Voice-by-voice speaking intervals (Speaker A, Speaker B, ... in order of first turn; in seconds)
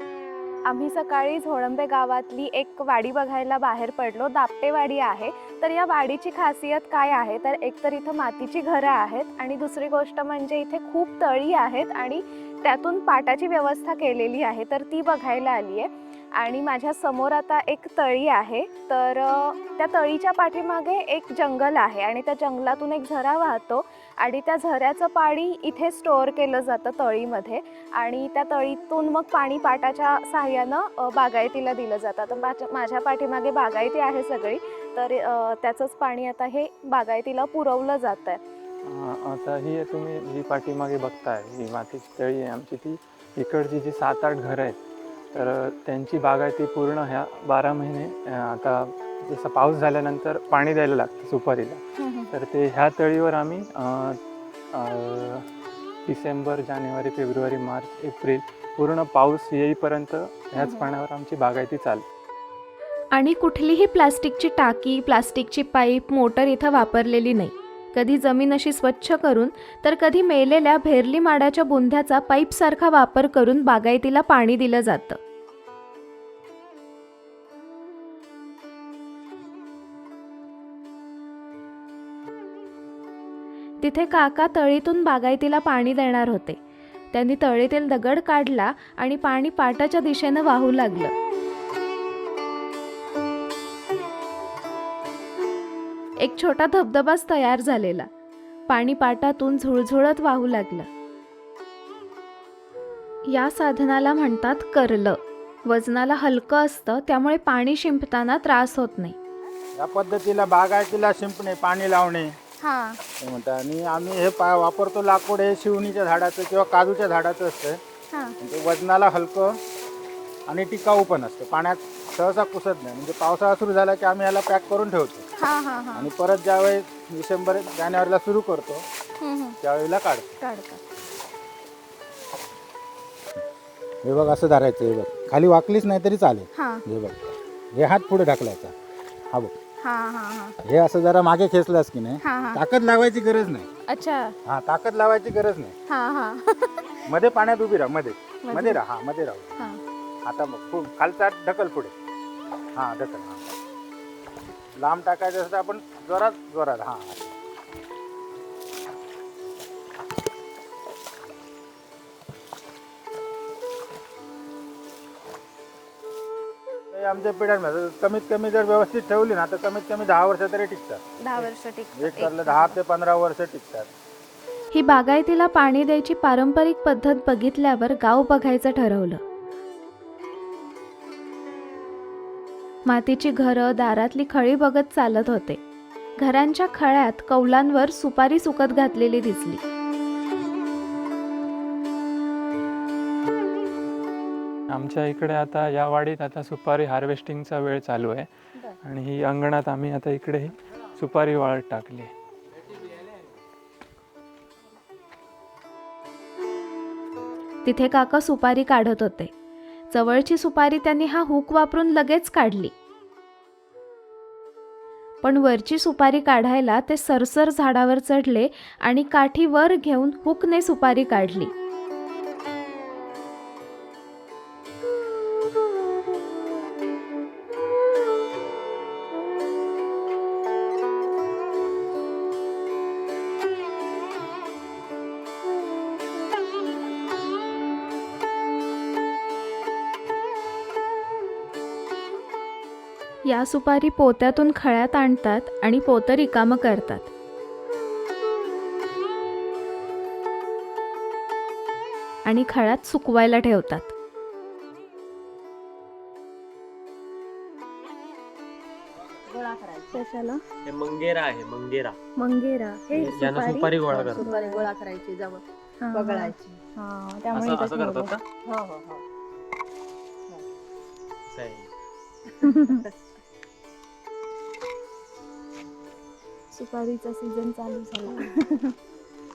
Speaker A: 0.7-38.4, 52.0-52.3, 60.6-60.9, 63.1-75.2, 83.8-86.6, 87.1-91.1, 96.2-98.1, 98.7-100.9, 103.2-109.2, 112.6-113.0, 125.4-126.1, 129.2-129.6, 130.4-130.8, 136.5-136.8, 139.8-140.5, 142.2-142.6, 143.9-144.3, 145.9-146.9, 148.4-148.8, 171.2-172.8, 174.7-179.2, 182.8-185.6, 186.2-189.6, 207.6-209.3, 209.9-212.7, 215.2-221.5, 243.3-247.1, 252.2-253.9, 259.9-260.4, 262.1-264.7, 265.8-268.1, 272.4-272.8, 276.5-278.7
Speaker B: 38.8-44.8, 45.3-54.2, 54.7-55.5, 56.0-62.0, 194.7-198.3, 198.8-202.1
Speaker C: 109.8-112.3, 113.2-117.8, 118.4-119.5, 120.5-125.2, 125.9-128.8, 129.6-130.3, 134.0-138.7, 140.6-143.7, 144.4-145.7, 147.1-149.5, 150.2-151.9, 152.8-153.5, 154.8-157.3, 166.9-173.9
Speaker D: 259.3-260.0, 263.0-266.6, 268.4-269.0, 272.4-272.7
Speaker E: 260.6-262.0, 262.9-264.3, 267.3-268.2, 271.3-271.7